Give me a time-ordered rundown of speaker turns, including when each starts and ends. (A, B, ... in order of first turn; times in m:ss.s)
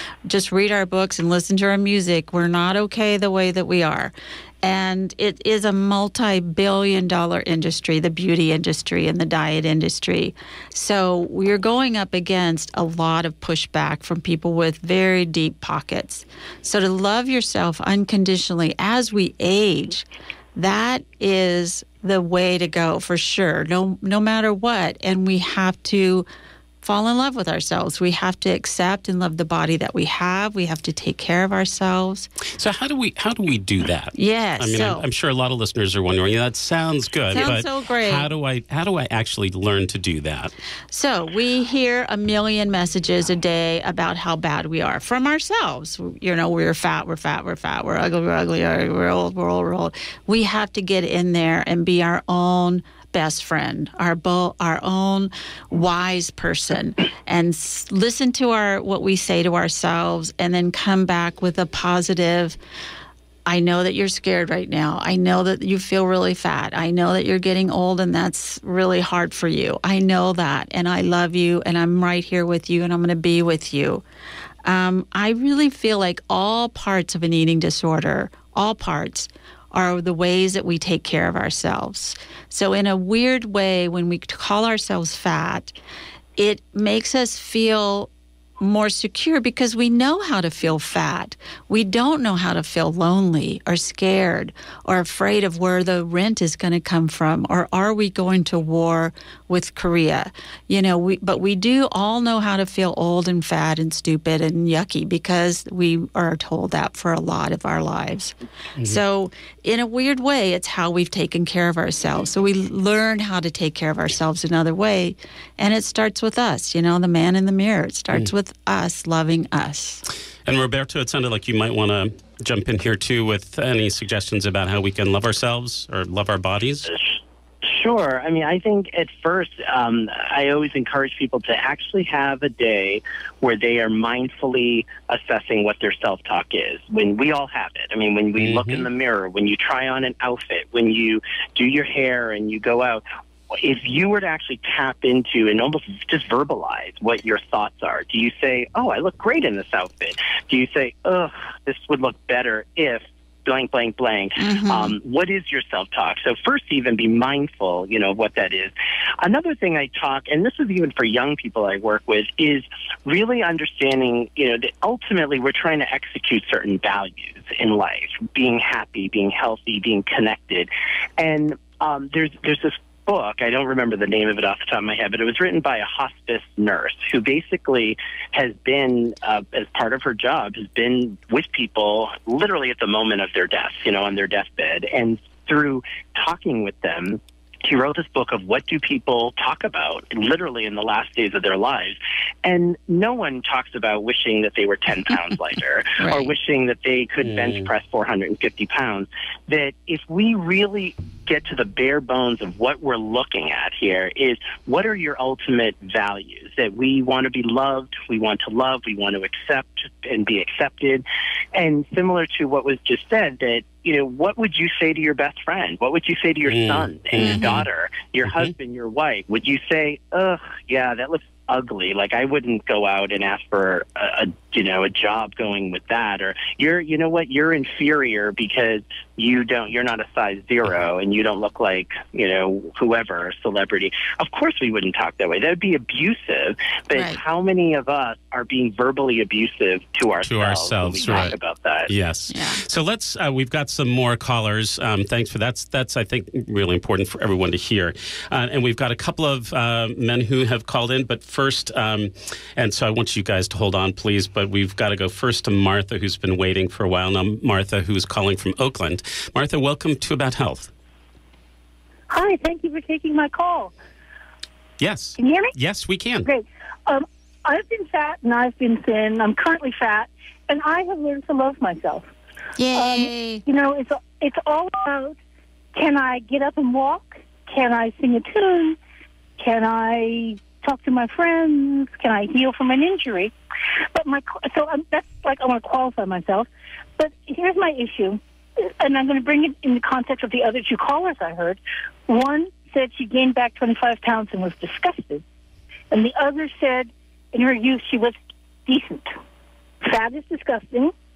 0:00.2-0:26.3 A
0:26.8-0:32.3 A
0:32.5-0:40.5 B
0:34.1-0:35.0 A
0:37.3-0:38.3 A
0:40.9-1:02.6 A
1:03.5-1:14.0 A
1:14.6-1:25.7 A
1:26.4-2:00.0 A
2:00.4-2:06.9 B
2:07.6-4:01.9 C
2:18.4-2:18.8 B
2:34.4-2:34.9 A
3:16.0-3:16.3 A
3:17.2-3:17.7 B
3:36.5-3:37.6 B
3:37.2-3:37.6 A
3:56.9-3:57.2 A
4:00.2-4:01.3 B
4:01.0-4:01.4 A
4:01.9-4:20.7 B
4:02.3-4:02.6 A
4:22.1-4:23.7 D
4:24.8-4:26.3 B
4:25.2-4:25.5 D
4:26.2-4:32.1 D
4:32.6-4:33.4 A
4:32.7-4:35.2 D
4:35.7-4:38.8 D
4:39.4-4:43.3 D
4:43.9-4:46.5 D
4:47.0-4:48.2 D
4:48.8-4:55.2 D
4:55.9-4:58.1 D
4:58.6-4:59.1 D
4:59.8-5:00.9 D